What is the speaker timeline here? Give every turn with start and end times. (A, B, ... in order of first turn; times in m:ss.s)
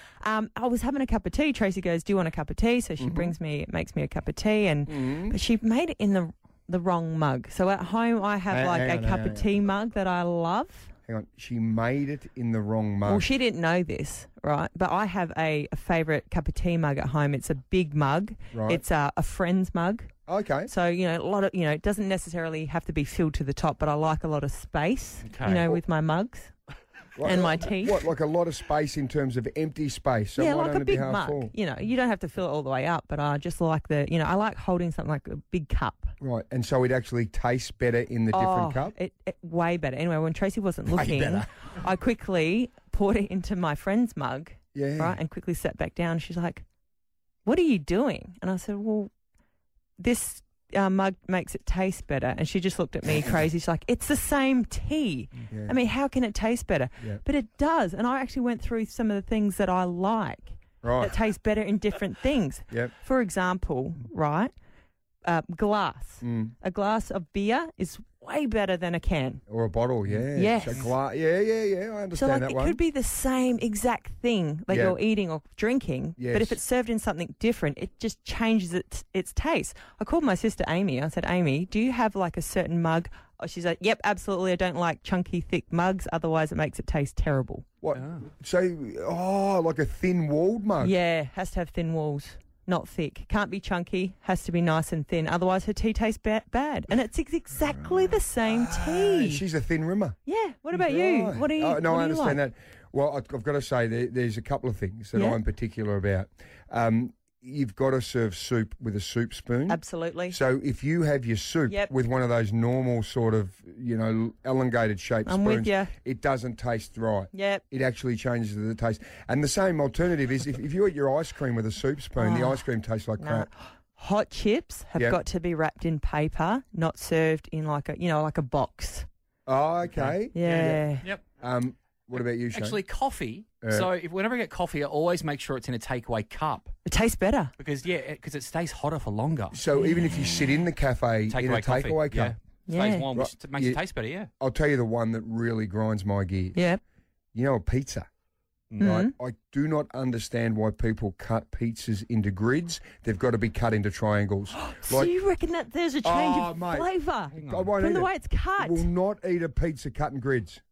0:00.2-0:10.9 A
0:03.0-0:03.3 B
0:04.9-0:05.4 B
0:08.5-0:09.6 B
0:11.1-0:13.3 B
0:13.0-0:20.1 A
0:18.5-0:18.8 B
0:20.3-0:20.7 B
0:20.7-0:26.5 A
0:25.2-0:25.7 C
0:27.2-0:31.5 B
0:27.2-0:28.0 A
0:30.4-0:36.1 A
0:36.2-0:38.9 B
0:38.3-0:46.6 A
0:40.9-0:41.4 C
0:44.7-0:45.2 B
0:47.4-0:49.1 A
0:50.0-1:04.5 A
0:55.5-0:55.8 B
1:00.8-1:01.2 B
1:05.2-1:09.4 A
1:06.2-1:06.5 B
1:09.5-1:12.8 B
1:10.3-1:10.9 A
1:12.1-1:27.6 A
1:14.7-1:15.0 B
1:16.2-1:16.6 B
1:27.8-1:30.9 B
1:27.9-1:28.2 C
1:30.8-1:39.4 A
1:38.4-1:40.2 B
1:40.2-1:42.4 A
1:40.7-2:03.5 B
1:45.1-1:45.4 A
1:49.7-1:50.4 A
1:55.2-1:55.9 A
1:57.3-1:57.6 A
2:02.2-2:02.6 A
2:03.2-2:09.1 A
2:09.5-2:10.8 B
2:09.9-2:11.2 C
2:10.3-2:11.0 A
2:11.4-2:12.8 B
2:12.2-2:16.7 C
2:13.6-2:13.9 B
2:16.8-2:17.5 A
2:17.6-2:19.6 C
2:19.5-2:22.3 B
2:19.8-2:20.4 A
2:21.3-2:24.3 C
2:22.7-2:23.1 A
2:23.1-2:23.8 B
2:24.4-2:26.6 B
2:26.5-2:26.8 A
2:27.3-2:28.1 B
2:28.8-2:35.1 B
2:28.8-2:29.1 A
2:34.6-2:38.9 A
2:36.0-2:36.9 B
2:37.3-2:37.7 C
2:37.4-2:40.6 B